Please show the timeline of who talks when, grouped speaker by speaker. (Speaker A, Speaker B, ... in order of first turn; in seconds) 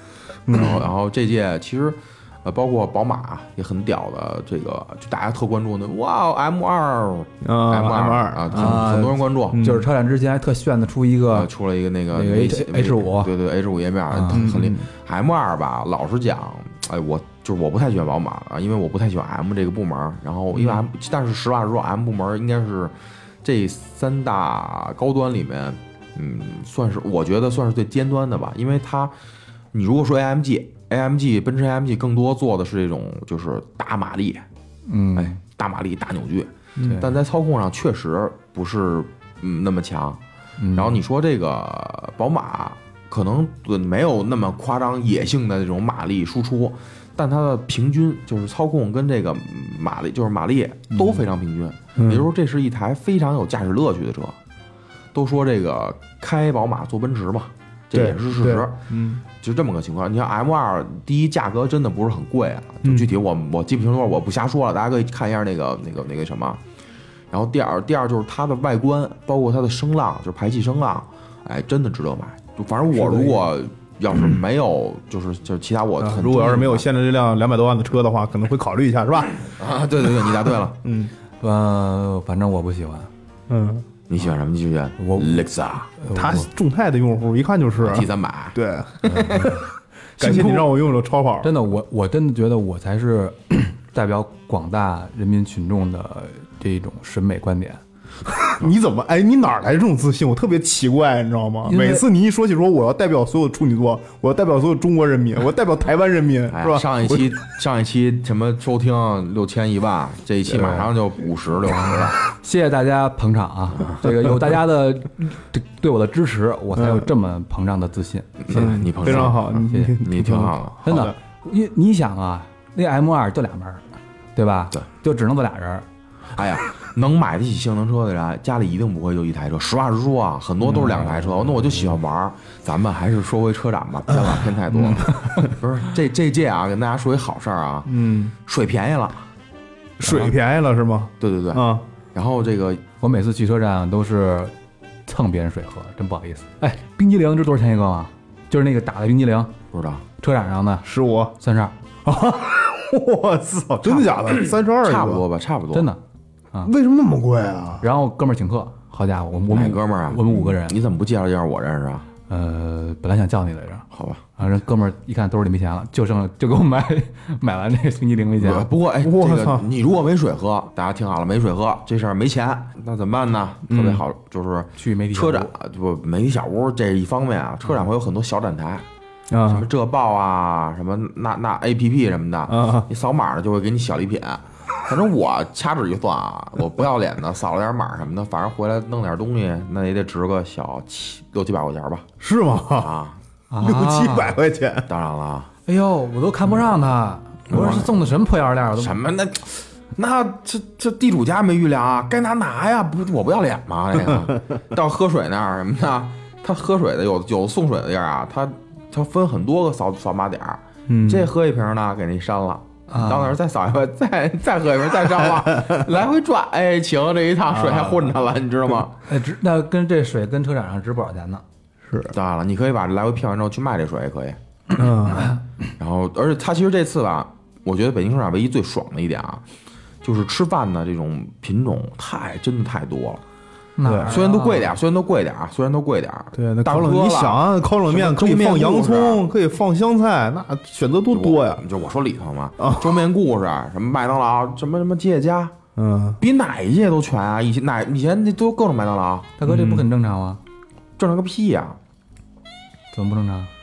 Speaker A: 0.5-0.8, 7.4-8.9, 9.5-9.9, 14.3-14.9, 52.0-52.2, 57.9-59.2, 62.8-63.1, 72.9-73.4, 76.0-79.3, 80.8-81.1, 83.5-83.8, 86.1-89.6, 90.2-91.5, 98.5-107.4, 116.8-117.1, 118.5-121.1, 137.9-138.3, 140.0-141.8, 150.8-151.3, 152.0-155.2, 156.6-157.8, 169.0-169.7, 173.7-174.0, 179.3-179.7, 182.5-182.9, 192.2-192.9, 193.6-194.9, 210.9-211.3, 224.7-225.4, 233.8-234.2, 236.3-241.6, 242.6-243.0, 245.8-246.2
Speaker B: 0.5-9.6, 11.3-29.1, 29.7-34.4, 35.1-40.2, 40.7-54.4, 55.1-58.8, 59.4-66.6, 67.3-76.8, 79.6-80.8, 84.1-85.9, 87.8-89.6, 90.2-90.7, 106.5-112.2, 113.8-114.0, 118.4-120.8, 126.3-137.9, 138.4-139.2, 141.2-142.8, 149.7-150.0, 153.8-155.9, 159.5-162.1, 163.9-164.2, 168.4-178.8, 179.4-192.1, 192.7-193.2, 194.9-195.5, 197.5-197.9, 198.7-219.0, 222.0-224.4, 225.8-229.4, 230.0-233.2, 234.0-239.2, 241.1-245.5, 246.2-249.8, 251.0-251.8
Speaker C: 8.5-11.5, 12.1-13.3, 14.1-14.4, 34.9-35.4, 40.6-41.0, 50.9-51.2, 81.4-83.1, 85.0-85.5, 86.0-86.5, 89.3-89.5, 91.4-97.8, 101.7-102.0, 111.7-120.0, 120.8-123.8, 124.3-125.8, 130.7-131.2, 135.1-135.4, 140.0-140.3, 143.0-144.5, 145.1-149.5, 150.2-150.9, 151.4-151.7, 155.7-156.0, 157.8-160.8, 162.3-163.8, 164.4-168.7, 174.8-175.5, 193.5-194.3, 195.7-199.0, 212.9-213.3, 219.1-221.4, 233.8-234.8, 249.4-250.4, 252.9-253.5